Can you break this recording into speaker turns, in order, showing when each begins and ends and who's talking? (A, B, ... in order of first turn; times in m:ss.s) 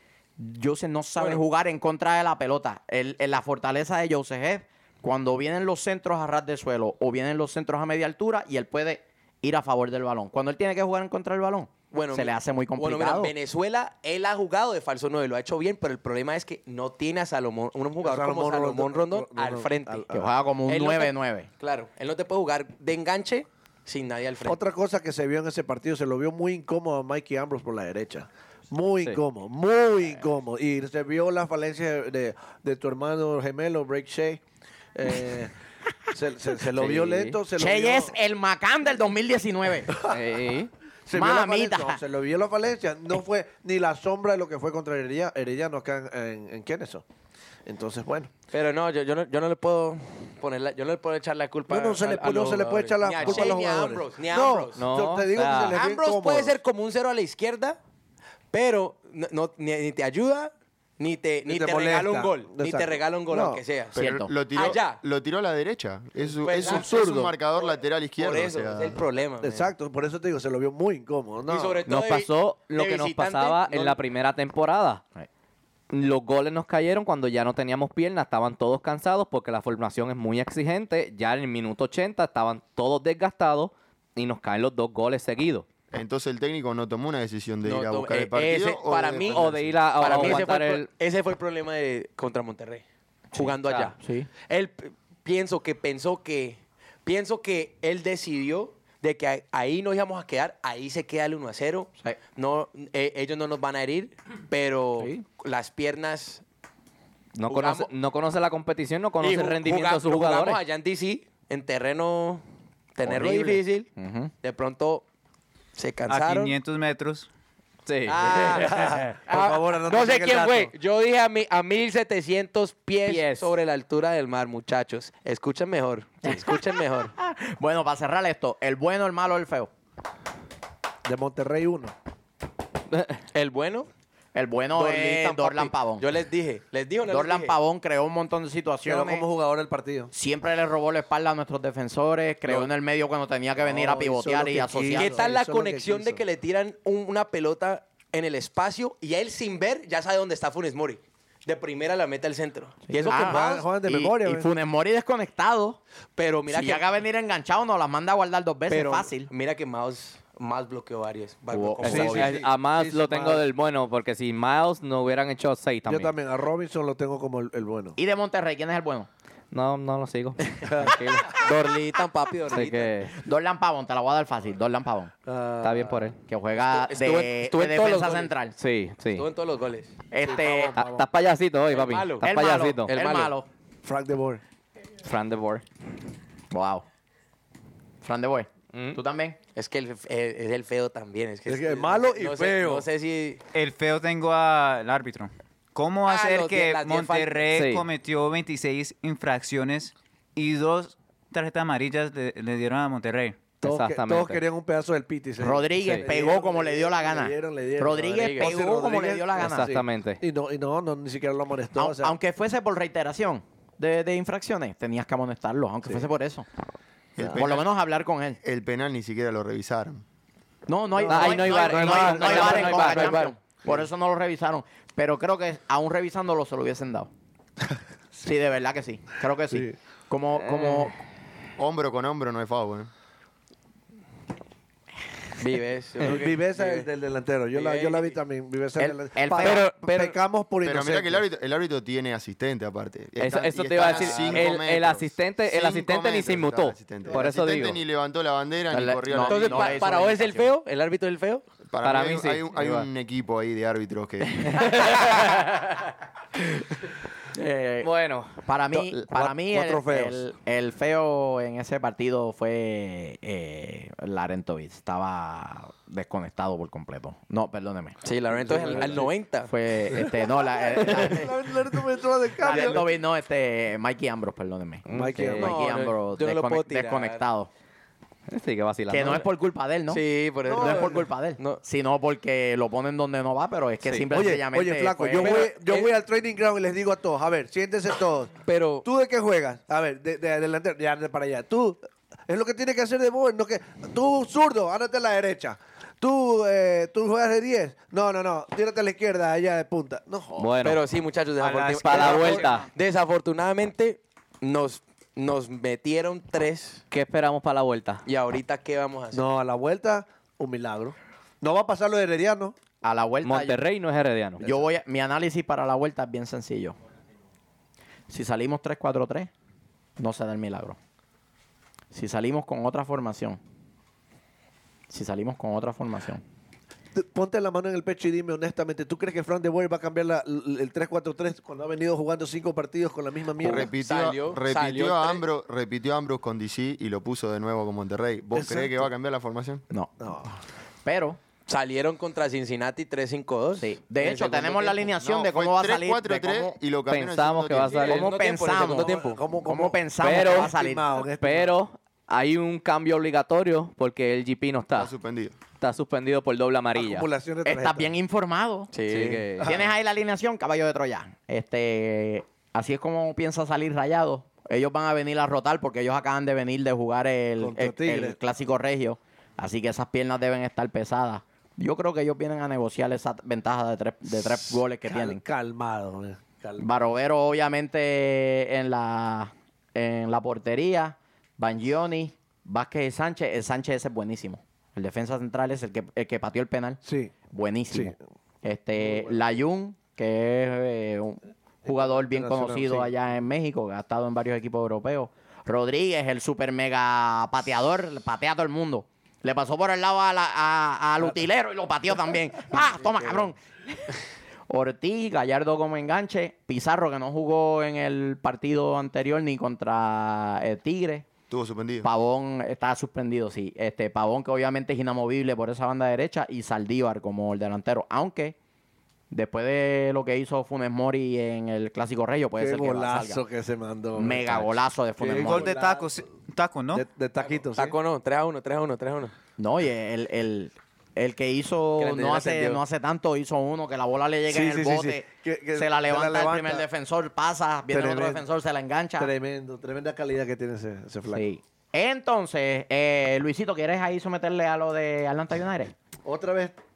0:00.4-0:13.3 A
0:11.9-0:20.0 B
0:18.0-0:20.3 C
0:20.1-0:21.5 A
0:20.7-0:24.7 B
0:24.5-0:34.4 C
0:35.0-0:35.5 C
0:36.1-0:38.1 C
0:36.8-0:37.4 D
0:37.6-0:40.0 A
0:40.0-0:40.7 D
0:41.1-0:47.0 C
0:41.1-0:42.0 A
0:47.7-0:48.3 C
0:48.5-0:54.8 B
0:51.7-0:56.6 C
0:54.8-0:55.8 D
0:55.6-0:57.8 B
0:58.5-1:04.0 B
1:01.5-1:03.6 C
1:03.9-1:09.0 E
1:04.0-1:04.3 A
1:04.6-1:05.0 B
1:06.4-1:06.9 B
1:06.6-1:07.3 C
1:07.6-1:09.7 B
1:09.4-1:11.9 C
1:11.5-1:14.0 B
1:11.9-1:15.0 D
1:15.9-1:25.7 D
1:25.9-1:30.4 E
1:27.6-1:46.4 B
1:29.2-1:30.9 D
1:33.4-1:34.3 A
1:33.6-1:33.9 D
1:47.4-1:50.6 D
1:47.5-1:47.9 B
1:49.2-1:52.4 B
1:53.0-1:53.9 B
1:53.1-1:54.3 A
1:54.4-1:55.0 B
1:55.8-1:56.6 B
1:56.1-1:57.3 F
1:57.9-1:59.1 D
1:58.1-2:07.1 B
1:58.6-2:00.7 C
2:03.0-2:03.5 D
2:06.2-2:09.7 A
2:11.1-2:11.9 C
2:12.9-2:13.2 D
2:13.3-2:13.9 B
2:14.3-2:16.1 A
2:14.8-2:17.6 B
2:17.1-2:19.2 A
2:18.8-2:20.1 C
2:20.1-2:25.2 A
2:23.6-2:26.2 C
2:24.9-2:33.7 B
2:32.9-2:35.8 A
2:33.0-2:34.5 C
2:36.2-2:36.9 B
2:36.5-2:39.3 A
2:38.7-2:42.4 B
2:41.5-2:42.4 A
2:41.8-2:46.1 D
2:41.8-2:43.4 C
2:45.9-2:48.0 C
2:48.0-2:49.1 A
2:49.5-2:51.4 D
2:50.6-2:51.0 C
2:51.3-2:52.9 B
2:52.5-2:53.1 D
2:53.2-2:55.1 A
2:55.3-2:56.0 C
2:55.6-2:56.2 D
2:56.2-2:58.5 A
2:56.6-2:58.3 B
2:58.6-2:59.3 D
2:59.2-3:00.0 B
3:00.1-3:00.8 A
3:00.2-3:01.1 C
3:00.8-3:02.9 D
3:01.7-3:02.3 B
3:02.2-3:03.5 A
3:02.9-3:03.3 B
3:03.8-3:04.4 C
3:05.0-3:05.6 D
3:06.5-3:06.8 A
3:08.0-3:09.4 A
3:08.7-3:09.0 D
3:09.6-3:13.4 B
3:11.5-3:12.9 C
3:13.5-3:23.6 F
3:16.1-3:17.5 B
3:17.5-3:17.9 D
3:23.6-3:32.2 C
3:23.6-3:24.4 D
3:25.4-3:29.7 A
3:25.8-3:26.1 D
3:28.1-3:28.6 B
3:29.4-3:30.2 D
3:31.8-3:36.5 A
3:37.2-3:37.7 E
3:37.3-3:38.4 A
3:38.4-3:40.0 E
3:40.7-3:47.1 A
3:41.0-3:43.1 C
3:41.1-3:43.3 D
3:41.4-3:43.3 B
3:48.2-3:50.9 A
3:49.5-3:49.8 C
3:50.4-3:50.9 D
3:51.6-3:52.9 E
3:55.4-3:56.9 B
3:56.0-4:01.2 C
3:57.5-3:58.2 B
3:58.8-3:59.7 A
3:59.4-4:00.1 D
4:00.6-4:09.9 E
4:03.2-4:07.8 D
4:08.7-4:10.5 A
4:09.2-4:11.4 B
4:11.7-4:15.1 E
4:11.8-4:12.9 D
4:14.5-4:15.8 D
4:17.3-4:17.9 A
4:17.8-4:18.4 D
4:18.4-4:28.0 A
4:18.7-4:20.2 C
4:28.0-4:29.5 B
4:28.3-4:29.1 C
4:28.6-4:31.3 A
4:30.7-4:32.9 C
4:32.4-4:37.5 A
4:32.4-4:32.8 B
4:34.9-4:35.6 D
4:34.9-4:35.5 C
4:35.4-4:37.2 B
4:38.3-4:39.3 D
4:38.9-4:45.5 A
4:39.9-4:41.6 B
4:40.5-4:41.1 C
4:44.1-5:00.5 C
4:45.2-4:45.9 B
4:48.4-4:48.9 B
5:00.4-5:00.8 D
5:00.6-5:06.8 B
5:01.4-5:02.7 F
5:01.8-5:02.7 D
5:06.9-5:08.0 D
5:08.1-5:09.2 B
5:09.1-5:12.6 C
5:12.8-5:13.6 A
5:13.2-5:14.4 D
5:14.4-5:16.8 A
5:18.1-5:19.3 A
5:20.0-5:20.8 A
5:21.9-5:23.4 A
5:24.9-5:26.2 A
5:27.0-5:33.7 C
5:33.4-5:39.6 E
5:33.7-5:35.2 B
5:38.3-5:38.9 C
5:40.0-5:40.3 C
5:40.8-5:41.2 A
5:41.5-5:44.9 B
5:43.6-5:46.6 A
5:45.0-5:47.9 E
5:46.9-5:48.1 D
5:47.7-5:49.2 B
5:47.8-5:50.8 A
5:48.7-5:51.6 C
5:50.0-5:50.6 D
5:51.2-5:54.9 D
5:54.8-5:55.4 E
5:55.6-5:57.1 D
5:56.8-5:58.0 C
5:57.4-5:58.7 A
5:58.7-5:59.2 B
5:58.9-5:59.6 D
5:59.4-5:59.7 C
5:59.4-6:15.2 A
6:07.4-6:08.2 C
6:14.9-6:16.7 C
6:16.6-6:26.8 A
6:26.8-6:27.1 C
6:27.3-6:43.8 A
6:27.7-6:28.0 C
6:28.8-6:29.2 C
6:31.7-6:32.9 C
6:42.8-6:43.3 B
6:44.5-6:51.1 A
6:51.3-6:51.9 E
6:51.8-6:58.4 A
6:59.1-7:03.2 A
7:02.4-7:06.0 C
7:04.0-7:05.6 A
7:05.2-7:06.8 F
7:06.7-7:07.8 C
7:07.5-7:09.1 B
7:09.4-7:19.1 A
7:11.8-7:12.6 B
7:14.3-7:16.6 C
7:17.7-7:18.2 C
7:19.0-7:21.2 C
7:21.1-7:25.7 A
7:26.0-7:26.6 C